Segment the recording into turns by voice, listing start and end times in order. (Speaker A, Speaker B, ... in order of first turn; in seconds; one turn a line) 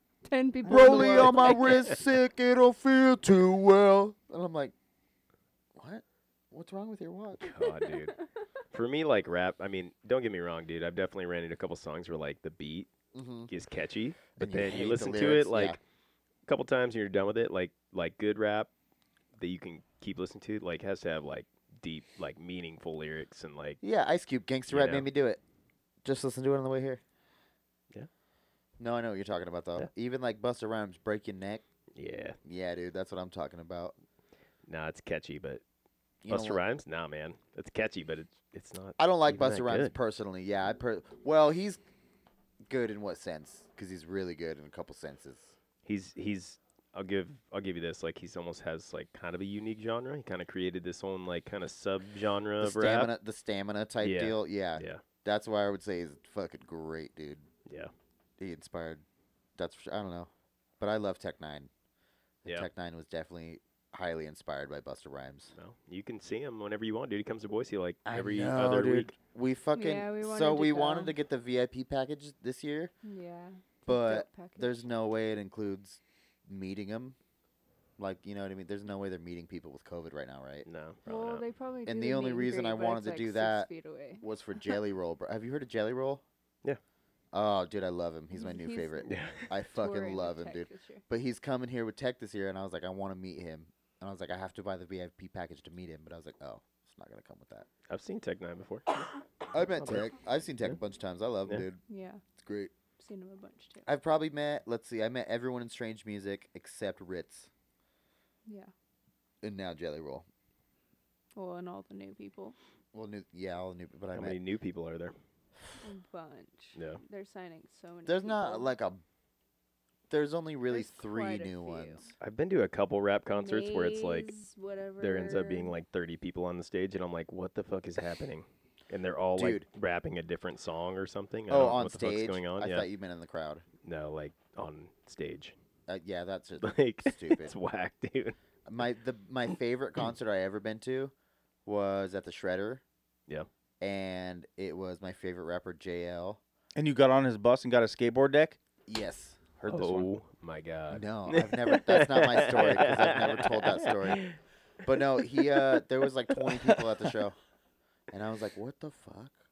Speaker A: 0.2-2.0
Speaker B: 0.7-1.6
Speaker C: 0.7-4.7
Speaker C: 5.8-7.5
Speaker D: 7.4-8.2
Speaker A: 7.6-8.2
Speaker D: 8.7-12.9
Speaker C: 13.1-13.5
Speaker D: 13.5-15.8
Speaker C: 14.4-15.8
Speaker D: 16.5-18.7
Speaker D: 19.4-23.8
Speaker C: 23.8-25.4
Speaker D: 24.7-25.1
Speaker C: 26.0-27.0
Speaker C: 28.8-31.6
Speaker D: 31.9-32.4
Speaker C: 32.4-34.0
Speaker D: 34.7-35.6
Speaker C: 36.2-36.6
Speaker D: 36.3-39.9
Speaker C: 39.0-41.8
Speaker C: 42.7-45.5
Speaker D: 45.9-53.1
Speaker C: 52.6-57.5
Speaker D: 54.0-55.0
Speaker C: 58.4-59.0
Speaker C: 59.6-61.7
Speaker C: 62.5-65.5
Speaker D: 65.5-69.1
Speaker C: 68.0-72.9
Speaker A: 69.7-71.2
Speaker A: 73.0-74.7
Speaker C: 73.9-77.2
Speaker C: 78.0-80.7
Speaker D: 80.7-81.4
Speaker A: 81.1-84.2
Speaker C: 81.8-86.2
Speaker C: 87.3-97.7
Speaker A: 88.3-91.0
Speaker D: 89.1-89.4
Speaker D: 97.9-99.0
Speaker C: 99.5-101.8
Speaker D: 99.8-100.1
Speaker A: 101.9-102.2
Speaker C: 102.4-102.7
Speaker A: 103.0-103.9
Speaker C: 103.8-107.5
Speaker A: 108.5-108.7
Speaker C: 109.4-110.2
Speaker A: 111.3-112.6
Speaker C: 112.9-114.4
Speaker D: 114.1-115.2
Speaker A: 115.8-118.7
Speaker D: 116.8-117.0
Speaker C: 118.1-119.0
Speaker C: 120.1-122.1
Speaker A: 120.7-122.0
Speaker D: 122.2-124.3
Speaker A: 123.3-125.7
Speaker D: 125.0-132.9
Speaker C: 129.4-129.7
Speaker C: 131.5-133.6
Speaker D: 133.8-135.6
Speaker C: 135.9-137.5
Speaker D: 136.6-138.4
Speaker C: 138.7-141.1
Speaker C: 141.7-142.8
Speaker C: 143.8-146.4
Speaker B: 146.8-148.6
Speaker C: 148.9-149.4
Speaker B: 149.6-150.1
Speaker D: 149.7-154.3
Speaker C: 150.9-154.2
Speaker C: 154.8-157.4
Speaker C: 158.1-159.3